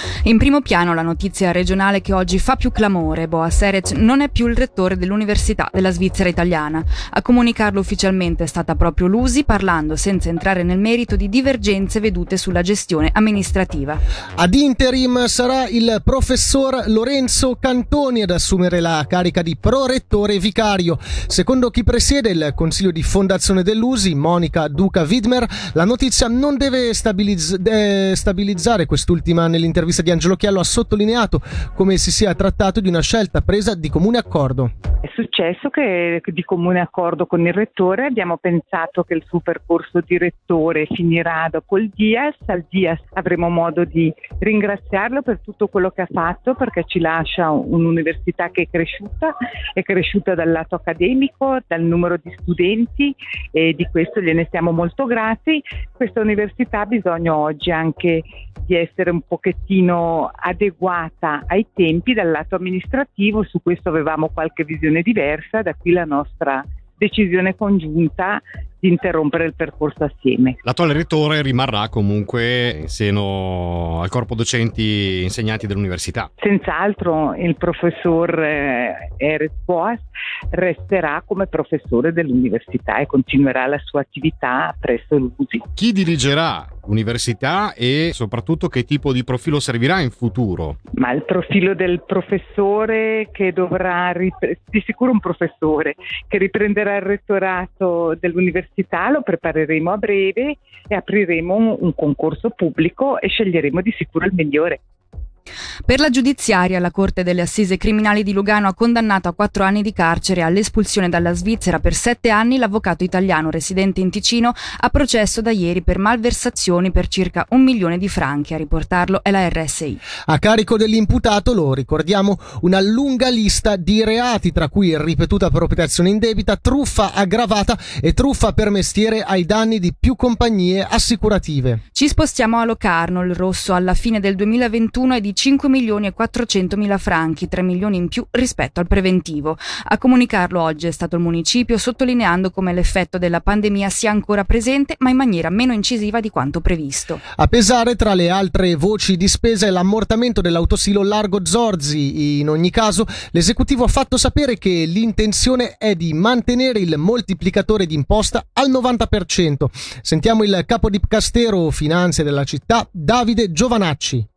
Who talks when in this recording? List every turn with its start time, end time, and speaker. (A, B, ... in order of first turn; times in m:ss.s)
0:00.2-0:14.0 A
0:14.4-0:34.7 B
0:35.0-1:10.6 C
1:10.6-1:16.3 D
1:16.4-1:25.7 C
1:25.8-1:30.8 D
1:31.0-1:44.8 C
1:45.9-2:00.0 A
2:00.3-2:11.8 B
2:11.9-2:27.2 A
2:27.4-2:44.3 B